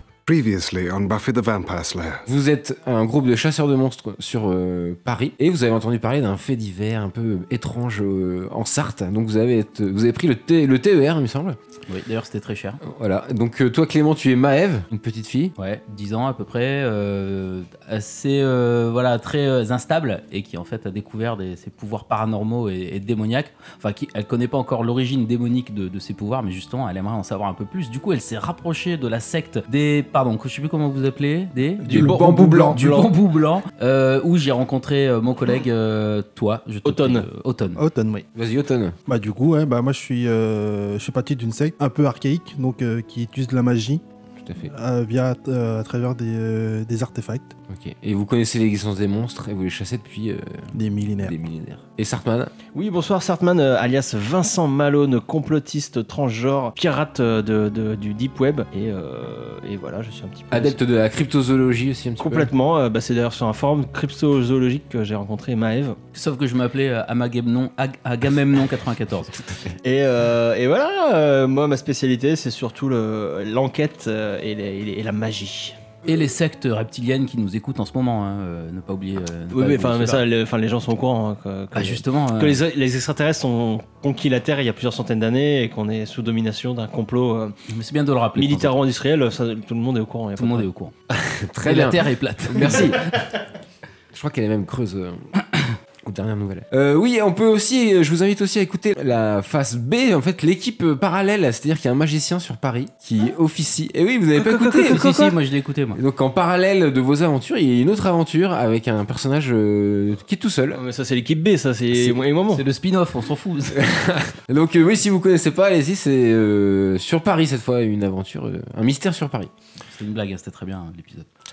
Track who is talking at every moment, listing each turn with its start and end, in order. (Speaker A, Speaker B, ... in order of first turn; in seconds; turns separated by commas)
Speaker A: 0.3-2.2, Speaker B: 2.2-11.6, Speaker C: 11.9-12.8, Speaker B: 12.8-15.5, Speaker C: 15.6-32.2, Speaker B: 31.9-33.0, Speaker D: 31.9-33.0, Speaker E: 31.9-32.5, Speaker C: 32.7-37.8, Speaker D: 36.8-37.3, Speaker E: 37.8-38.2, Speaker B: 38.3-39.0, Speaker E: 39.1-44.0, Speaker B: 44.4-44.7, Speaker E: 44.6-47.5, Speaker B: 47.7-52.5, Speaker E: 50.7-51.4, Speaker D: 52.7-60.8, Speaker B: 60.5-62.5, Speaker D: 62.2-66.0, Speaker C: 66.1-69.3, Speaker B: 69.4-69.7, Speaker D: 69.8-75.8, Speaker C: 76.0-80.3, Speaker D: 79.5-87.5, Speaker C: 81.7-82.6, Speaker C: 87.7-88.7, Speaker D: 88.3-90.7, Speaker C: 90.4-90.9, Speaker B: 91.1-93.3, Speaker C: 91.6-92.9, Speaker B: 94.1-95.3, Speaker B: 96.0-105.3, Speaker D: 104.3-105.0, Speaker C: 104.9-106.0, Speaker B: 105.9-110.8, Speaker D: 110.7-112.6, Speaker C: 111.9-113.8, Speaker B: 113.7-119.5, Speaker C: 119.9-121.3